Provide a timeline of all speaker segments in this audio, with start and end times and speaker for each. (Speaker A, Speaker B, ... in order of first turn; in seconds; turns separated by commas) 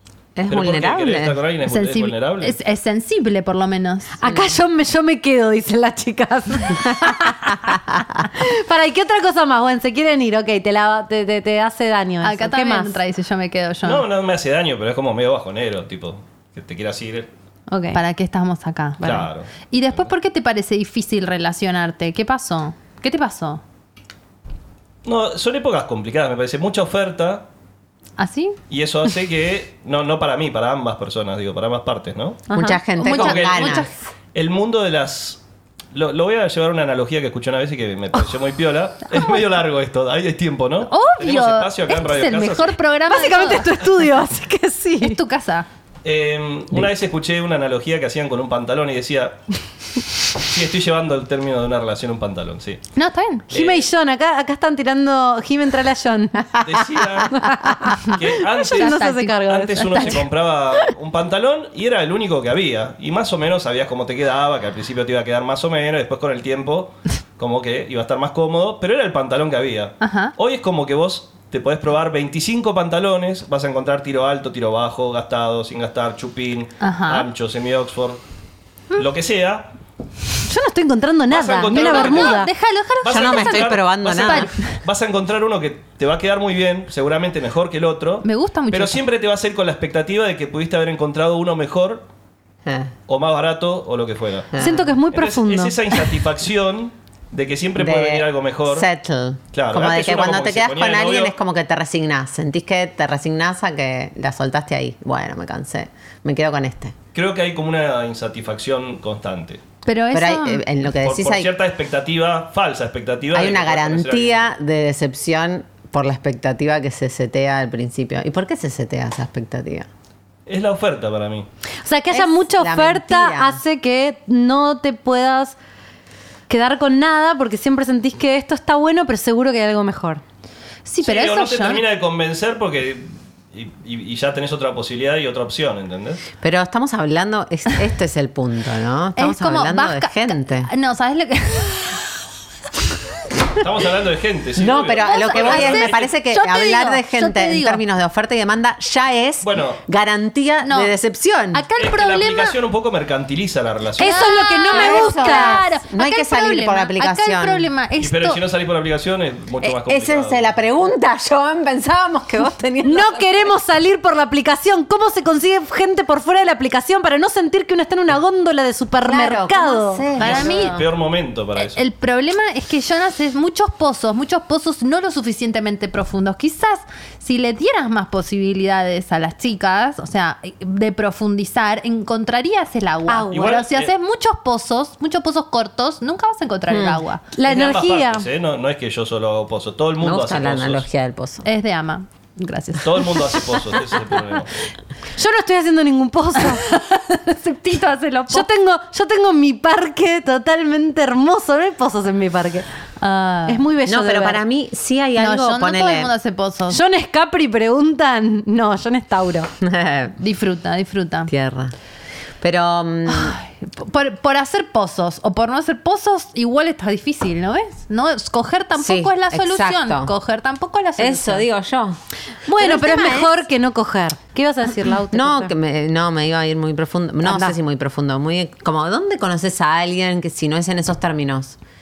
Speaker A: 0.3-1.4, Speaker B: 0.5-2.6, Speaker C: 1.7-4.2, Speaker D: 4.2-13.0, Speaker C: 12.2-14.0, Speaker B: 13.8-17.3, Speaker D: 17.7-18.0, Speaker C: 17.9-23.6, Speaker B: 19.0-19.5, Speaker B: 25.0-27.4, Speaker C: 28.2-28.6, Speaker B: 28.7-32.5, Speaker D: 32.5-32.8, Speaker A: 32.5-33.9, Speaker C: 33.0-33.9, Speaker B: 33.0-35.4, Speaker B: 35.9-42.8, Speaker C: 40.9-43.7, Speaker D: 43.1-45.2, Speaker C: 45.0-45.7, Speaker B: 46.0-49.4, Speaker B: 50.4-52.8, Speaker C: 52.9-53.5, Speaker B: 53.5-53.9, Speaker D: 53.5-56.5, Speaker B: 56.6-57.5, Speaker D: 57.3-60.2, Speaker B: 58.1-78.2, Speaker C: 58.1-60.2, Speaker C: 70.0-70.3, Speaker C: 76.8-77.3, Speaker B: 78.9-79.7, Speaker D: 80.5-82.5, Speaker B: 81.3-82.5, Speaker C: 81.7-84.8, Speaker B: 83.0-92.0, Speaker A: 83.0-84.5, Speaker C: 88.2-89.0, Speaker A: 92.6-92.9, Speaker B: 93.1-94.5, Speaker A: 94.5-94.9, Speaker D: 94.6-96.0, Speaker B: 95.1-98.9, Speaker A: 97.8-107.0, Speaker B: 99.5-101.3, Speaker B: 107.1-109.6, Speaker C: 109.8-110.6, Speaker A: 110.1-111.5, Speaker B: 110.9-114.5, Speaker A: 113.3-119.9, Speaker B: 120.5-121.5, Speaker D: 121.8-125.5, Speaker A: 122.1-123.6, Speaker D: 126.5-130.2, Speaker C: 130.8-131.8, Speaker B: 131.0-136.2, Speaker A: 136.4-140.7, Speaker C: 139.2-142.1, Speaker B: 143.5-146.1, Speaker A: 144.6-151.6, Speaker C: 144.9-147.8, Speaker B: 149.4-149.8, Speaker C: 150.6-150.9, Speaker C: 151.5-152.6, Speaker B: 151.8-154.3, Speaker D: 154.0-155.6, Speaker C: 154.0-158.4, Speaker A: 154.7-157.7, Speaker B: 158.0-160.5, Speaker A: 159.6-163.5, Speaker D: 162.8-170.1, Speaker A: 169.0-170.8, Speaker C: 170.2-170.8, Speaker B: 170.2-171.8, Speaker C: 171.6-187.3, Speaker D: 183.1-183.5, Speaker B: 183.3-183.9, Speaker A: 186.7-187.0, Speaker D: 187.3-188.3, Speaker B: 187.4-190.8, Speaker A: 190.0-191.4, Speaker C: 191.4-193.4, Speaker B: 192.8-194.5, Speaker D: 195.2-196.7, Speaker C: 196.5-198.5, Speaker D: 198.3-202.7, Speaker C: 203.0-203.6, Speaker D: 203.5-204.4, Speaker A: 203.8-206.1, Speaker C: 205.2-206.8, Speaker D: 206.7-209.5, Speaker A: 209.6-210.1, Speaker C: 210.2-211.3, Speaker A: 211.3-211.7, Speaker A: 212.4-213.4, Speaker C: 213.1-221.4, Speaker A: 218.8-220.1, Speaker A: 221.0-222.0, Speaker D: 222.4-225.5, Speaker A: 222.6-223.3, Speaker A: 225.1-231.6, Speaker D: 227.2-227.6